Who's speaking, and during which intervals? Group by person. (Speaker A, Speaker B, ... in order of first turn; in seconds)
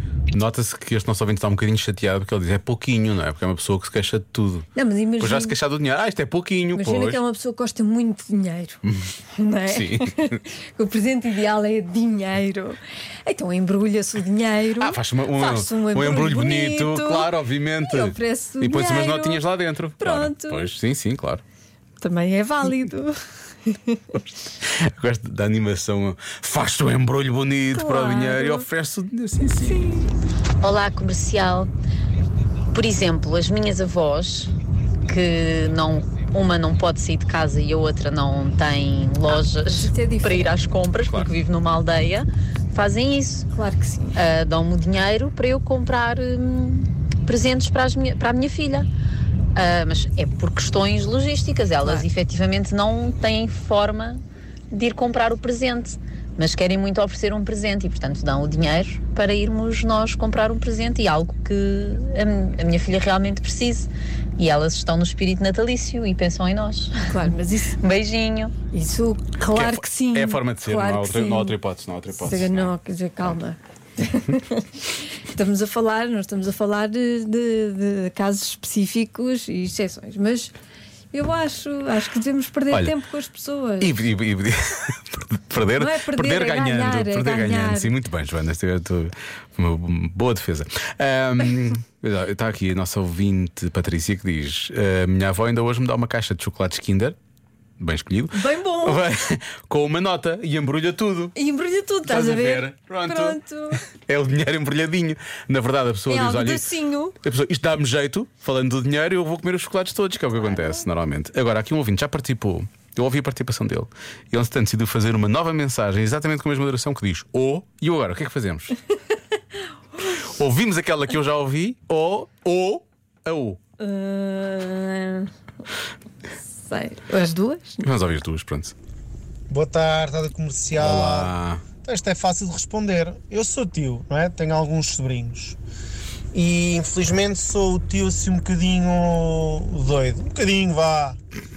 Speaker A: 0.3-4.7, 5.2-7.2, 9.7-10.3, 14.8-21.4, 24.6-29.9, 41.0-41.3, 69.5-72.7, 83.8-97.2, 97.8-101.3, 102.0-118.8, 120.1-123.6, 127.8-128.7, 130.7-131.7
Speaker B: 4.7-5.5, 6.8-8.8, 9.3-19.4, 20.0-20.7, 22.0-23.1, 23.7-24.2, 27.7-28.6, 29.6-30.0, 39.6-40.5, 43.5-44.2, 67.0-67.8, 68.7-71.6, 72.1-80.5, 81.1-83.9, 85.7-87.9, 98.3-99.0, 101.3-103.8, 106.1-107.2, 123.8-125.3, 126.5-127.8
Speaker C: 30.6-31.7, 32.7-34.5, 35.0-43.5, 44.1-48.9, 49.5-67.2, 67.8-68.5
Speaker D: 129.5-135.6, 136.3-141.2